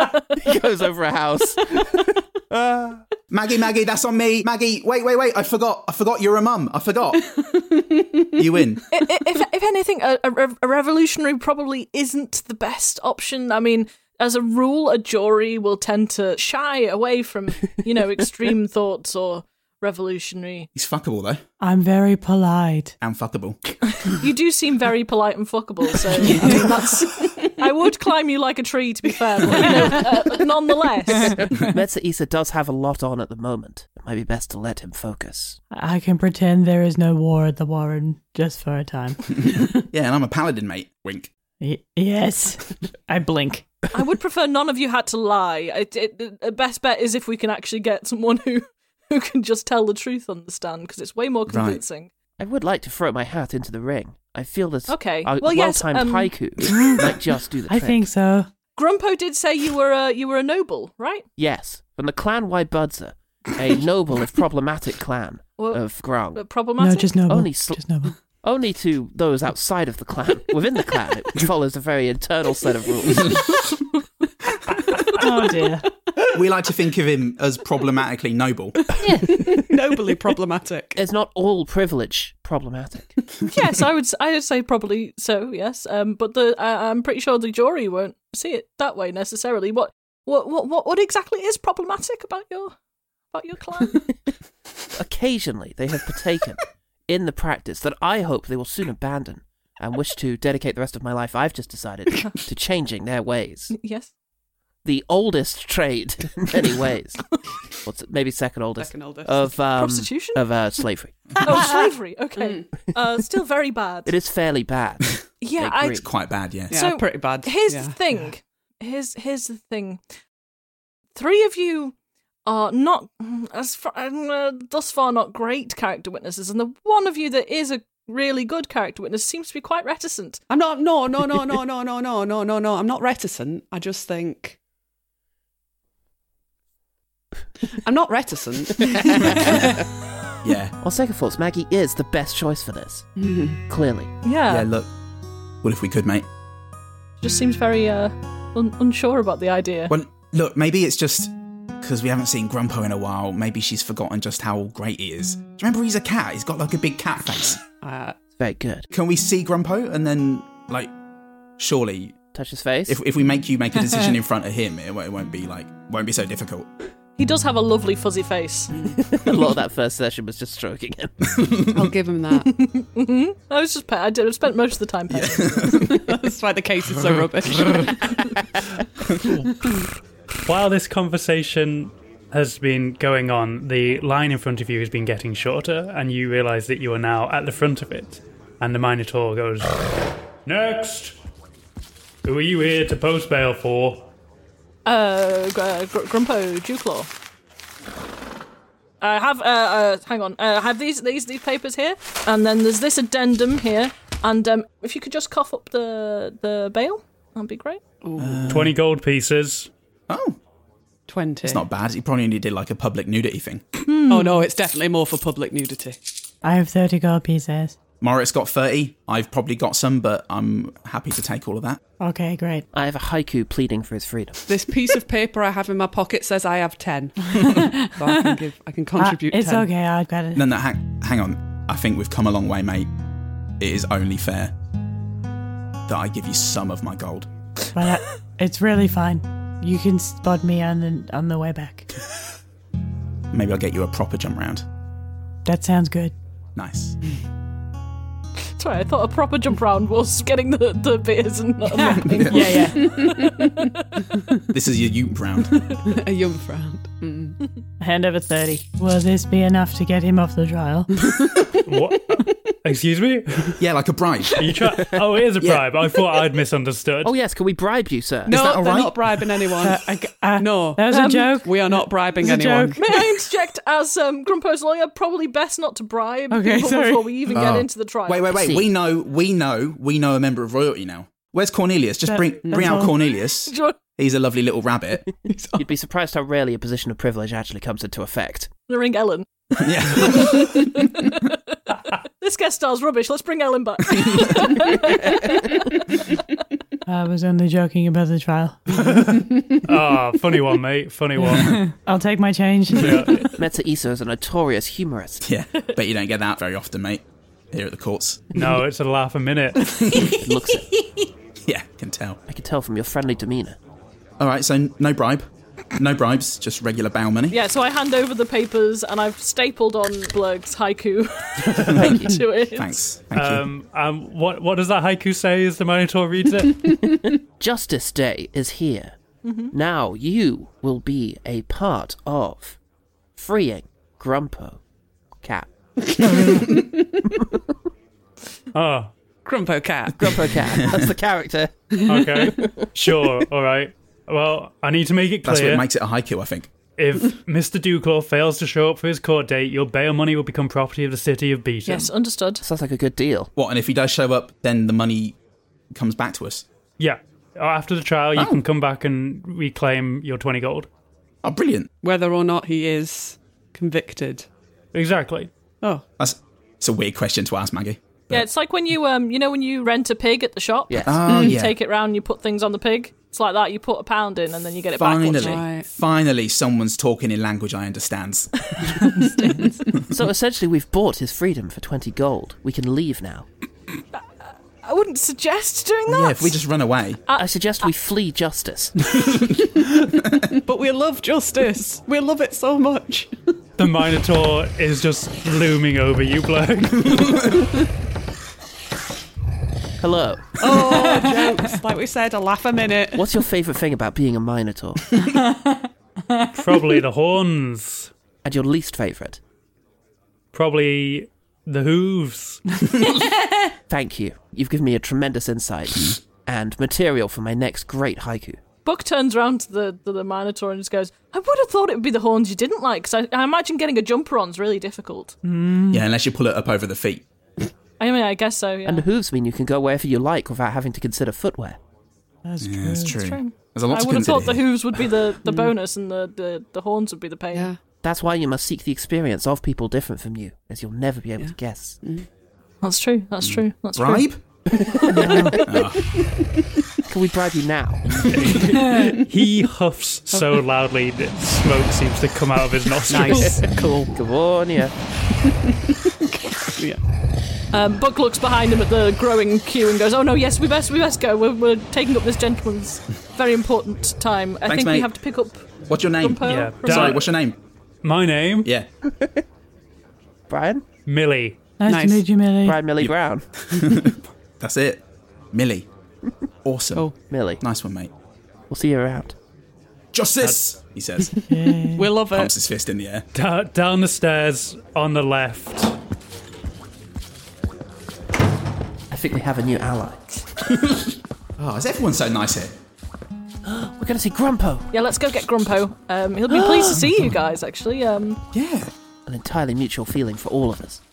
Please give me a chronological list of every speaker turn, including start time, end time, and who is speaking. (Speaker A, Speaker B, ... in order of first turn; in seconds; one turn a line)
Speaker A: 0.3-3.0
Speaker B: 3.3-7.5
Speaker C: 7.4-8.2
Speaker B: 8.3-9.0
Speaker D: 8.9-20.7
Speaker B: 20.7-21.4
Speaker E: 21.6-22.9
Speaker B: 23.0-23.6
Speaker D: 23.9-31.4
Speaker E: 26.3-26.7
Speaker A: 31.1-35.6
Speaker E: 35.7-39.2
Speaker B: 39.3-41.3
Speaker E: 41.6-43.8
Speaker D: 43.9-52.1
Speaker B: 51.5-51.8
Speaker A: 52.4-58.1
Speaker D: 54.9-56.4
Speaker E: 57.7-58.5
Speaker D: 58.8-61.2
Speaker A: 61.4-66.4
Speaker D: 65.6-67.1
Speaker E: 66.8-68.2
Speaker A: 67.3-73.6
Speaker E: 75.1-75.9
Speaker B: 76.3-78.9
Speaker A: 78.9-79.7
Speaker C: 79.3-81.0
Speaker A: 81.0-83.2
Speaker D: 83.5-92.7
Speaker D: 93.3-94.1
Speaker A: 94.9-103.7
Speaker D: 103.7-104.1
Speaker A: 104.8-107.3
Speaker A: 107.8-111.5
Speaker C: 108.8-109.4
Speaker D: 109.7-110.4
Speaker D: 111.4-114.1
Speaker C: 112.4-112.7
Speaker A: 114.0-116.1
Speaker D: 115.4-116.1
Speaker B: 116.0-116.8
Speaker C: 116.7-118.0
Speaker D: 116.7-120.0
Speaker D: 121.1-130.4
Speaker C: 130.5-134.6
Speaker C: 137.7-139.7
Speaker A: 139.2-139.7
Speaker B: 140.4-140.8
Speaker A: 140.8-143.1
Speaker C: 143.2-143.6
Speaker A: 143.7-144.1
Speaker D: 144.2-144.7
Speaker B: 144.5-144.9
Speaker B: 145.6-146.3
Speaker D: 147.2-149.9
Speaker B: 149.9-157.6
Speaker C: 157.8-158.2
Speaker A: 158.4-158.9
Speaker B: 158.9-160.9
Speaker B: 161.6-162.2
Speaker A: 162.3-163.0
Speaker B: 162.9-166.7
Speaker D: 167.2-168.7
Speaker A: 168.8-171.1
Speaker B: 171.3-171.9
Speaker C: 171.7-172.5
Speaker D: 172.4-175.9
Speaker B: 175.1-176.1
Speaker C: 175.8-178.2
Speaker B: 179.1-179.4
Speaker F: 180.4-189.8
Speaker F: 190.4-191.1
Speaker F: 192.2-194.1
Speaker D: 194.8-197.1
Speaker D: 199.0-207.8
Speaker C: 208.0-208.6
Speaker B: 208.2-208.8
Speaker F: 208.5-209.7
Speaker B: 210.1-210.4
Speaker C: 211.1-211.6
Speaker B: 211.4-213.6
Speaker D: 213.8-214.4
Speaker C: 214.1-216.0
Speaker E: 216.4-217.8
Speaker B: 218.0-221.8
Speaker E: 222.0-222.7
Speaker A: 222.7-224.5
Speaker C: 224.5-229.7
Speaker E: 227.5-228.4
Speaker E: 229.0-230.4
Speaker B: 230.3-232.9
Speaker B: 233.6-234.5
Speaker B: 235.9-237.3
Speaker E: 237.7-241.9
Speaker B: 243.3-244.6
Speaker E: 245.4-246.1
Speaker B: 246.6-246.9
Speaker D: 248.6-254.0
Speaker E: 251.7-253.0
Speaker B: 251.9-252.6
Speaker C: 252.8-253.7
Speaker B: 254.5-255.7
Speaker C: 255.7-257.4
Speaker E: 257.8-260.9
Speaker C: 261.0-261.5
Speaker F: 261.6-263.6
Speaker B: 263.6-264.6
Speaker F: 264.4-267.1
Speaker A: 267.0-268.4
Speaker C: 268.2-272.8
Speaker B: 268.3-269.1
Speaker E: 269.6-272.8
Speaker D: 270.9-271.3
Speaker D: 272.8-278.4
Speaker E: 276.3-277.2
Speaker B: 277.3-285.2
Speaker A: 278.3-278.7
Speaker E: 282.1-282.9
Speaker C: 282.4-282.7
Speaker D: 283.4-283.8
Speaker A: 285.5-288.5
Speaker D: 288.7-289.2
Speaker B: 289.6-290.8
Speaker D: 289.9-291.4
Speaker D: 292.2-296.1
Speaker B: 294.0-294.5
Speaker E: 296.9-298.9
Speaker F: 298.8-301.7
Speaker B: 301.2-301.6
Speaker E: 301.3-303.3
Speaker F: 302.7-303.3
Speaker A: 303.3-305.2
Speaker B: 305.2-308.4
Speaker F: 308.3-310.0
Speaker A: 310.0-310.7
Speaker B: 311.4-312.2
Speaker A: 312.3-313.6
Speaker B: 314.2-317.4
Speaker D: 317.3-322.8
Speaker A: 321.7-322.2
Speaker B: 321.8-323.4
Speaker F: 323.1-326.9
Speaker A: 327.4-328.9
Speaker D: 329.2-329.5
Speaker A: 329.5-332.6
Speaker A: 333.1-334.6
Speaker A: 335.2-336.4
Speaker F: 338.5-338.9
Speaker C: 339.2-340.3
Speaker A: 339.9-342.6
Speaker B: 340.5-340.8
Speaker C: 341.7-342.3
Speaker F: 341.9-345.6
Speaker B: 345.2-346.5
Speaker F: 346.8-351.9
Speaker D: 351.6-352.4
Speaker A: 352.4-353.3
Speaker B: 353.4-355.2
Speaker B: 355.7-356.4
Speaker F: 356.8-360.7
Speaker B: 361.2-361.7
Speaker C: 361.8-364.3
Speaker F: 364.7-365.3
Speaker B: 366.0-368.2
Speaker D: 368.1-375.4
Speaker A: 370.7-371.2
Speaker B: 370.9-371.6
Speaker B: 374.8-379.1
Speaker C: 375.2-375.7
Speaker A: 379.9-383.3
Speaker D: 384.6-386.4
Speaker B: 385.9-387.0
Speaker A: 387.1-388.7
Speaker B: 390.1-390.3
Speaker C: 390.3-393.1
Speaker F: 393.6-397.4
Speaker B: 396.9-397.3
Speaker A: 399.8-400.8
Speaker C: 400.4-403.1
Speaker E: 400.9-401.3
Speaker A: 402.9-405.0
Speaker F: 406.3-407.9
Speaker A: 408.2-409.2
Speaker F: 410.3-412.6
Speaker A: 413.7-418.4
Speaker D: 418.6-425.1
Speaker E: 425.2-425.9
Speaker B: 425.7-427.1
Speaker D: 427.8-428.9
Speaker A: 428.6-431.6
Speaker E: 432.2-433.1
Speaker B: 432.4-434.4
Speaker D: 432.9-437.5
Speaker C: 435.2-435.5
Speaker C: 437.3-437.6
Speaker A: 437.8-441.8
Speaker C: 441.2-442.1
Speaker D: 442.6-444.1
Speaker B: 443.2-444.2
Speaker A: 444.5-445.4
Speaker E: 444.9-445.4
Speaker B: 445.4-446.0
Speaker A: 446.9-448.1
Speaker F: 448.1-453.5
Speaker C: 448.2-449.0
Speaker C: 452.9-453.8
Speaker E: 452.9-453.7
Speaker A: 453.9-454.7
Speaker C: 455.6-456.8
Speaker D: 457.5-465.4
Speaker B: 464.4-464.9
Speaker B: 465.7-467.4
Speaker D: 466.0-467.0
Speaker F: 466.2-467.1
Speaker F: 467.8-468.5
Speaker A: 468.8-469.2
Speaker A: 470.3-470.6
Speaker F: 470.9-471.4
Speaker E: 471.6-472.6
Speaker C: 471.7-472.1
Speaker A: 472.4-473.3
Speaker B: 472.8-475.7
Speaker B: 476.4-476.9
Speaker A: 477.1-477.4
Speaker B: 477.4-477.9
Speaker A: 478.5-479.1
Speaker B: 479.9-481.2
Speaker F: 480.2-480.4
Speaker E: 481.3-482.0
Speaker C: 481.7-482.3
Speaker B: 482.0-483.1
Speaker F: 483.1-485.7
Speaker A: 488.9-490.1
Speaker B: 490.6-492.5
Speaker A: 493.4-494.7
Speaker D: 494.7-498.2
Speaker B: 496.7-497.1
Speaker B: 498.3-498.7
Speaker A: 499.1-500.8